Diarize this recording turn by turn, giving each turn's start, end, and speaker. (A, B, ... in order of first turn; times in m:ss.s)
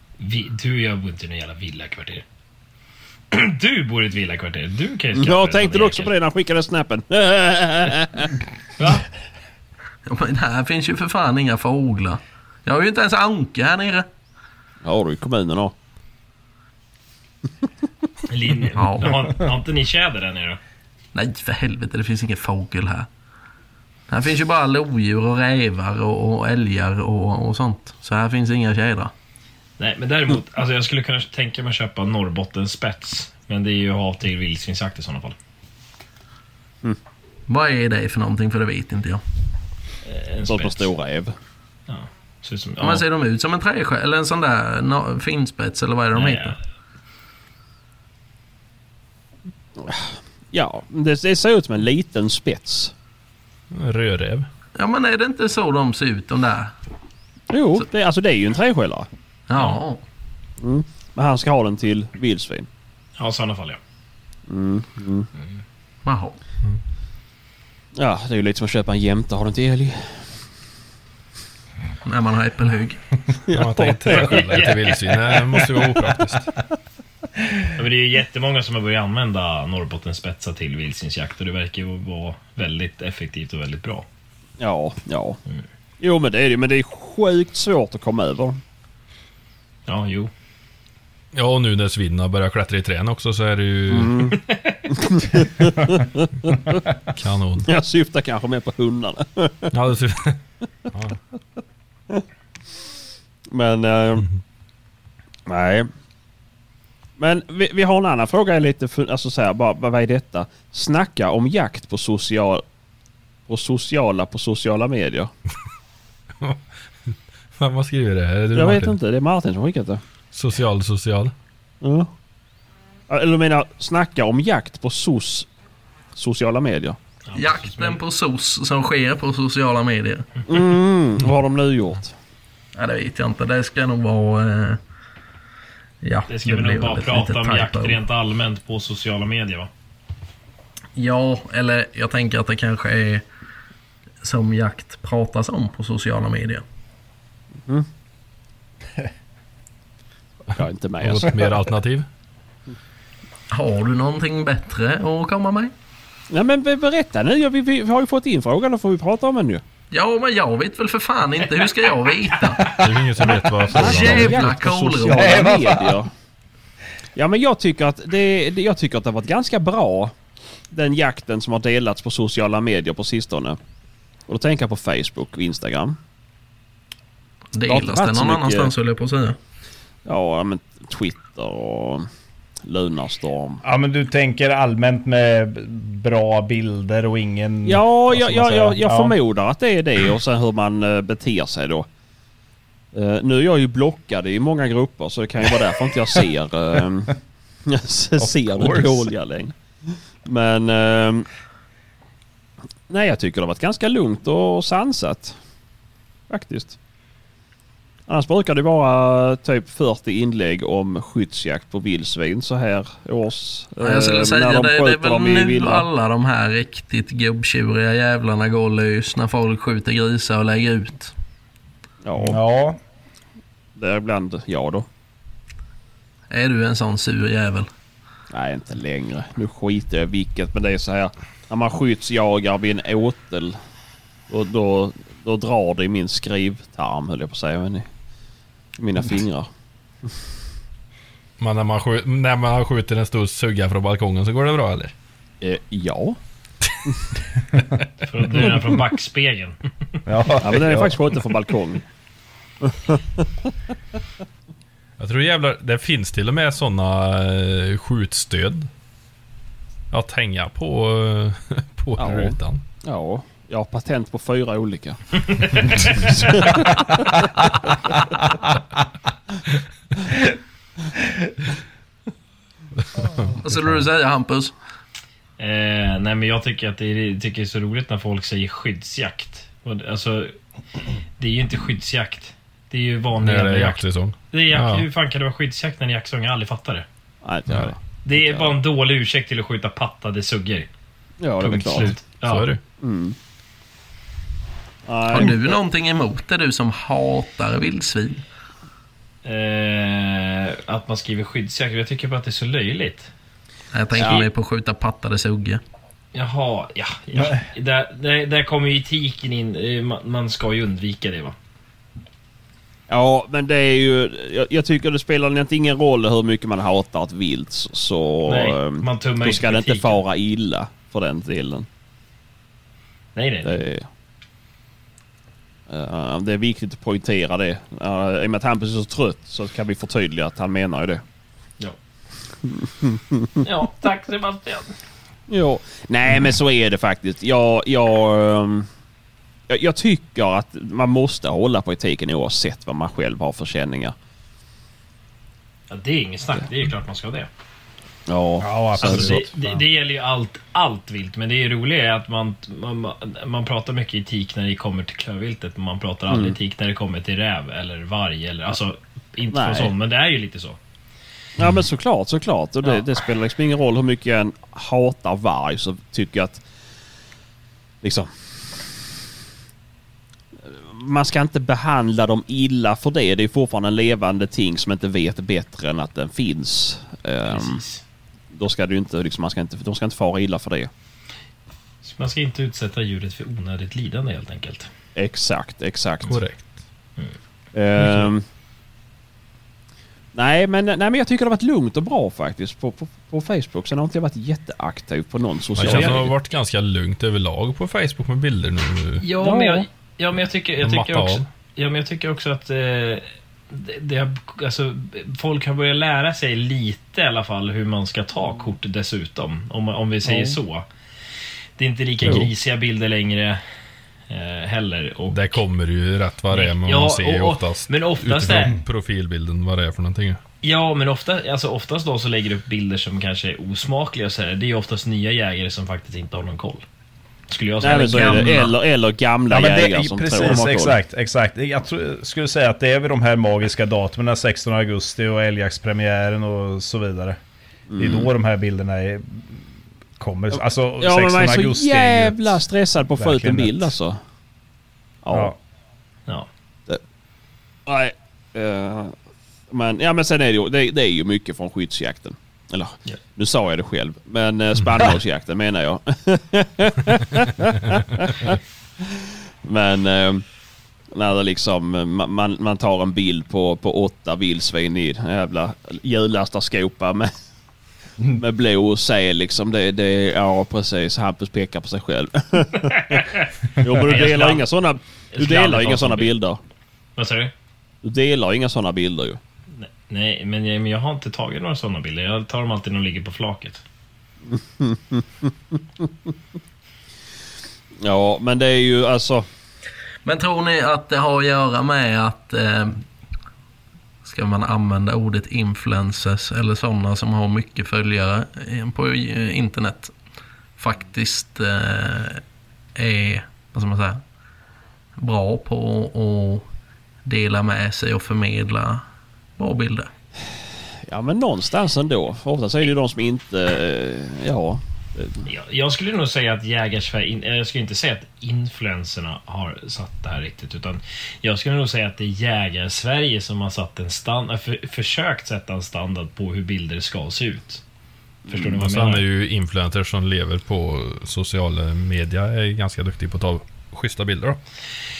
0:00.2-0:02.2 A
0:03.3-0:06.1 A
0:05.2-0:08.4 B
0:08.8-0:09.0 A
0:10.1-0:14.1 C
0:14.8-0:15.7 B
0:18.3-0:20.6 A
0:18.8-0:19.3 C
0:21.1-0:23.1 C
0:24.1-0:29.1 C
0:29.8-0:35.4 A
0:37.5-0:39.2 C
0:40.0-0:40.9 A
0:40.5-0:41.3 B
0:41.9-0:43.0 A
0:42.8-0:46.6 C
0:46.1-0:46.6 A
0:49.8-0:52.9 B
0:53.7-0:54.5 D
0:54.8-0:56.7 C
0:57.5-0:59.1 B
0:59.5-1:00.0 C
1:00.6-1:02.7 B
1:03.2-1:03.8 A
1:04.5-1:05.3 B
1:06.0-1:06.4 C
1:08.0-1:10.2 B
1:12.0-1:13.0 C
1:13.5-1:14.7 B
1:13.5-1:16.5 D
1:14.1-1:15.4 A
1:15.4-1:16.0 B
1:17.7-1:24.0 A
1:24.6-1:25.4 B
1:26.0-1:28.6 B
1:29.9-1:30.3 A
1:31.3-1:34.3 D
1:33.9-1:36.8 B
1:34.3-1:34.8 A
1:37.1-1:37.7 D
1:37.6-1:39.7 B
1:39.7-1:40.4 D
1:40.9-1:41.2 D
1:43.5-1:44.3 B
1:45.4-1:45.9 B
1:47.2-1:52.6 B
1:53.5-1:55.3 B
1:56.4-1:59.0 D
1:58.5-2:00.0 B
2:00.3-2:01.3 D
2:01.8-2:02.1 B
2:03.1-2:05.5 B
2:06.1-2:07.0 B
2:07.2-2:08.0 A
2:07.3-2:10.3 C
2:10.5-2:12.1 B
2:12.7-2:14.8 C
2:16.0-2:18.0 C
2:16.3-2:19.7 A
2:21.0-2:23.2 C
2:24.2-2:26.6 C
2:30.5-2:31.6 B
2:30.6-2:32.1 D
2:33.5-2:35.7 C
2:36.3-2:39.6 B
2:39.9-2:42.8 C
2:42.7-2:44.6 D
2:43.3-2:46.1 B
2:43.7-2:45.6 C
2:45.1-2:46.0 E
2:47.2-2:50.1 B
2:50.7-2:53.6 B
2:54.3-2:56.0 B
2:57.5-2:59.4 C
2:57.7-2:58.7 B
3:00.0-3:02.1 B
3:02.6-3:03.6 B
3:03.6-3:09.2 E
3:07.6-3:11.9 B
3:12.9-3:21.3 B
3:18.2-3:19.1 E
3:22.9-3:25.4 B
3:26.3-3:26.8 B
3:28.1-3:35.8 B
3:33.8-3:41.1 C
3:42.0-3:42.4 B
3:42.2-3:42.8 E
3:43.8-3:44.8 B
3:46.3-3:47.7 C
3:48.3-3:53.6 B
3:54.3-3:57.9 B
3:58.8-3:59.5 B
4:01.4-4:04.9 D
4:05.4-4:06.2 B
4:08.0-4:09.6 A
4:10.0-4:11.0 E
4:10.4-4:11.8 B
4:12.6-4:13.5 B
4:15.0-4:18.7 D
4:19.9-4:22.6 D
4:22.0-4:28.0 B
4:32.9-4:33.3 D
4:33.4-4:34.5 C
4:35.4-4:40.4 A
4:41.2-4:46.8 A
4:43.2-4:44.9 D
4:47.2-4:48.6 B
4:48.0-4:50.7 A
4:51.2-4:51.9 B
4:51.4-4:52.5 A
4:51.6-4:52.6 D
4:52.8-4:53.2 B
4:54.8-4:55.6 B
4:55.1-4:58.2 C
4:59.2-5:03.1 A
5:03.7-5:05.6 C
5:04.0-5:04.3 B
5:06.1-5:11.4 A
5:07.2-5:07.4 E
5:12.9-5:21.7 B
5:18.2-5:20.0 A
5:23.1-5:23.6 A
5:23.4-5:23.9 B
5:25.7-5:31.0 B
5:32.5-5:33.4 B
5:33.4-5:34.8 A
5:35.3-5:38.7 B
5:39.5-5:43.9 B
5:45.7-5:47.3 A
5:48.1-5:49.3 B
5:48.4-5:49.6 E
5:48.8-6:00.6 A
5:56.1-5:56.4 B
5:59.3-5:59.7 B
6:01.4-6:06.4 B
6:07.8-6:08.1 B
6:10.4-6:17.6 B
6:17.3-6:17.8 A
6:18.3-6:20.7 B
6:21.8-6:24.7 A
6:25.0-6:26.2 B
6:26.0-6:26.5 D
6:27.5-6:28.2 B
6:30.1-6:36.1 B
6:35.6-6:39.1 D
6:35.6-6:36.0 A
6:39.0-6:50.6 A
6:39.2-6:39.7 B
6:40.6-6:41.3 D
6:50.0-6:50.4 B
6:51.6-6:53.4 A
6:54.1-6:55.4 A
6:55.1-7:00.2 D
6:56.3-6:58.5 A
7:00.4-7:06.6 A
7:07.3-7:08.5 A
7:07.6-7:10.8 B
7:09.3-7:17.2 E
7:17.7-7:18.1 B
7:17.8-7:19.4 E
7:20.0-7:23.7 E
7:20.8-7:24.0 B
7:25.0-7:25.3 B
7:25.1-7:25.4 E
7:27.6-7:28.9 B
7:29.5-7:40.2 B
7:40.9-7:47.1 B
7:48.0-7:56.4 B
7:52.6-7:54.4 A
7:55.1-7:56.2 A
7:57.0-7:57.3 A
7:57.8-7:59.2 B
7:59.5-8:03.6 A
8:04.3-8:06.1 B
8:07.8-8:09.2 B
8:10.0-8:12.8 C
8:14.0-8:19.9 C
8:20.6-8:22.2 C
8:22.7-8:24.0 C
8:25.0-8:26.4 C
8:27.0-8:28.8 C
8:29.4-8:29.9 C
8:30.8-8:35.2 B
8:35.2-8:47.6 A
8:48.2-8:48.5 B
8:48.3-8:49.0 A
8:48.6-8:54.4 D